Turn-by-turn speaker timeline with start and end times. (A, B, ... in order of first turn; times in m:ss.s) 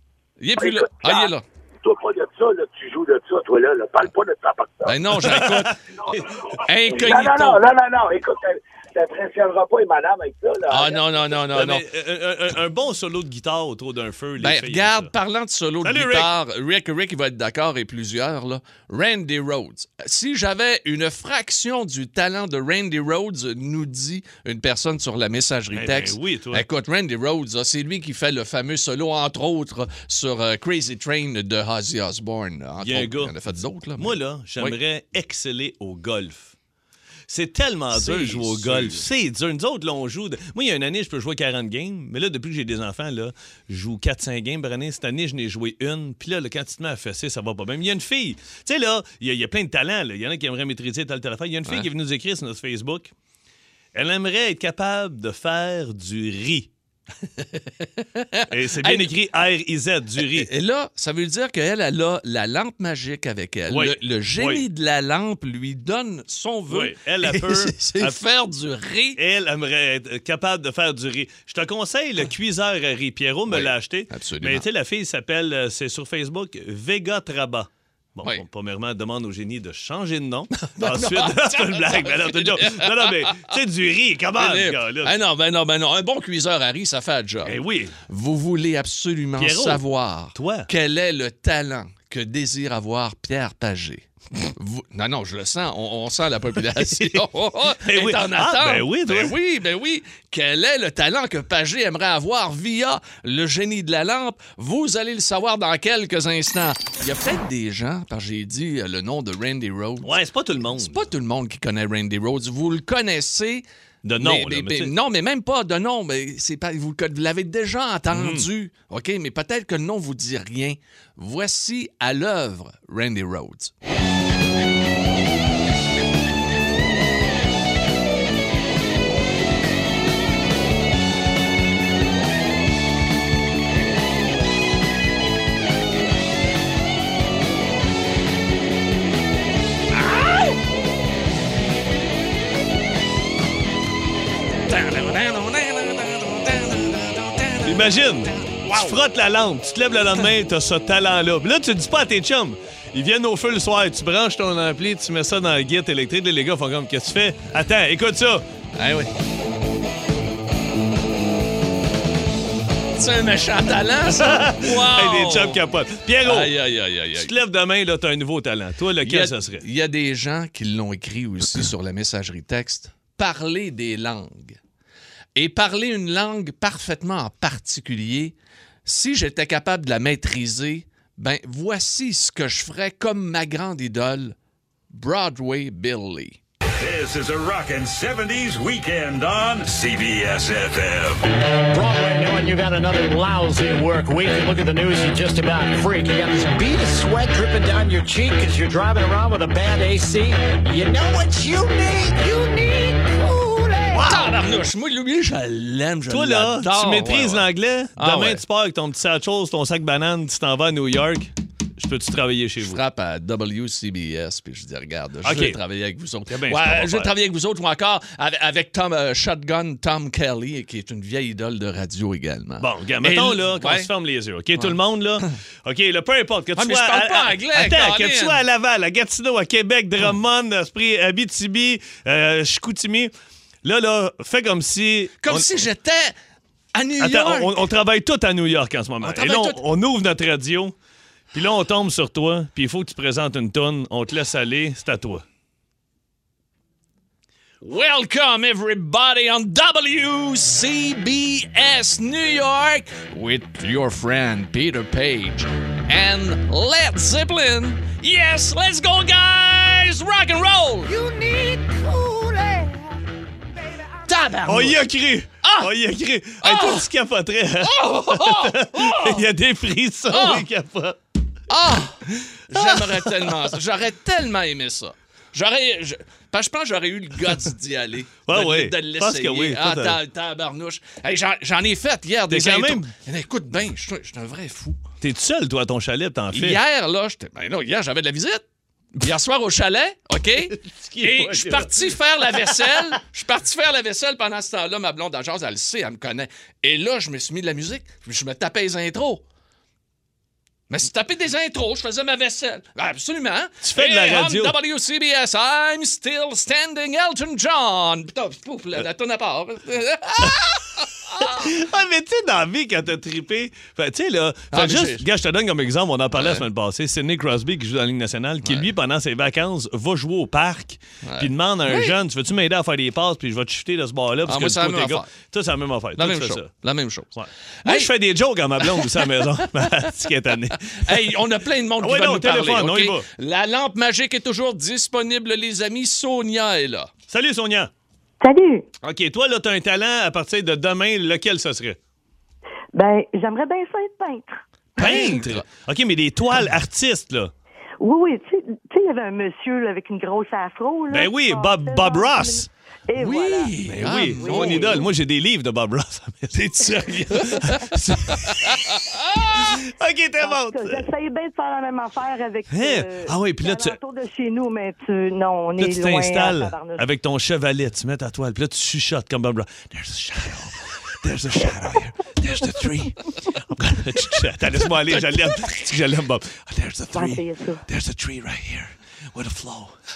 0:00.4-0:01.4 A
0:00.6-0:05.1 B
0:04.8-0:05.8 A
0:05.2-0:06.3 C
0:06.6-0:07.6 A
0:06.8-0:11.3 B
0:10.7-0:11.8 A
0:11.5-0:15.1 C
0:14.4-0:34.8 A
0:15.8-0:16.3 C
0:25.7-0:26.6 C
0:32.8-0:33.3 C
0:34.0-0:36.5 C
0:37.3-0:53.1 C
0:37.9-0:39.0 A
0:53.9-0:56.7 C
0:57.4-0:59.1 A
0:58.5-1:00.5 C
1:00.2-1:09.2 A
1:03.7-1:04.6 C
1:06.7-1:08.2 C
1:09.2-1:25.1 C
1:13.5-1:14.6 A
1:20.7-1:23.5 A
1:24.4-1:27.5 A
1:27.4-1:28.0 C
1:28.1-1:50.1 A
1:29.4-1:30.7 C
1:36.7-1:37.3 C
1:37.8-1:39.3 C
1:50.0-1:51.1 C
1:50.7-1:53.6 A
1:54.0-1:54.9 C
1:54.2-2:03.7 A
1:58.1-1:58.5 C
2:20.0-2:20.5 A
2:24.7-2:29.0 A
2:27.6-2:38.4 C
2:38.8-2:39.1 A
2:42.9-2:45.6 A
2:44.1-2:46.5 C
2:46.2-2:47.3 A
2:47.2-2:49.6 C
2:49.0-2:54.6 A
2:55.4-2:58.3 A
2:58.8-3:04.4 A
3:04.9-3:06.4 A
3:06.8-3:11.2 D
3:11.7-3:24.1 E
3:23.9-3:28.4 A
3:24.0-3:24.3 C
3:26.1-3:32.8 C
3:32.6-3:43.9 A
3:35.2-3:35.6 C
3:36.3-3:37.1 C
3:42.6-3:53.1 C
3:46.6-3:48.4 A
3:53.6-3:55.7 C
3:55.2-3:56.1 A
3:56.7-3:57.7 A
3:57.0-4:00.7 C
3:59.0-3:59.6 A
4:01.3-4:05.2 C
4:07.6-4:20.9 A
4:20.8-4:23.0 E
4:23.7-4:24.7 E
4:24.1-4:24.8 A
4:24.4-4:31.0 C
4:25.4-4:25.7 A
4:26.4-4:26.9 A
4:27.6-4:29.2 A
4:30.1-4:30.4 A
4:31.5-4:44.8 A
4:32.5-4:33.5 C
4:38.3-4:40.0 C
4:42.3-4:42.9 C
4:45.0-4:46.6 C
4:46.3-4:48.4 A
4:49.0-4:59.2 A
4:50.5-4:52.9 C
5:00.7-5:11.5 A
5:03.6-5:04.6 C
5:11.2-5:26.5 C
5:14.5-5:15.0 A
5:16.1-5:16.4 A
5:21.0-5:21.9 A
5:24.3-5:25.1 A
5:26.0-5:27.1 A
5:27.1-5:31.2 C
5:27.6-5:27.9 A
5:28.6-5:29.5 A
5:30.7-5:36.9 A
5:31.8-5:33.0 C
5:37.1-5:37.7 C
5:38.2-5:38.7 F
5:38.8-5:41.8 C
5:42.7-5:45.0 F
5:44.8-5:45.4 A
5:44.8-5:47.3 C
5:47.8-5:54.9 F
5:50.9-5:52.5 C
5:53.0-5:54.8 A
5:53.6-5:58.6 C
5:56.3-5:59.5 A
5:59.4-6:00.8 C
6:00.2-6:06.9 F
6:02.5-6:03.8 C
6:05.6-6:19.8 C
6:14.9-6:15.4 A
6:16.9-6:17.6 F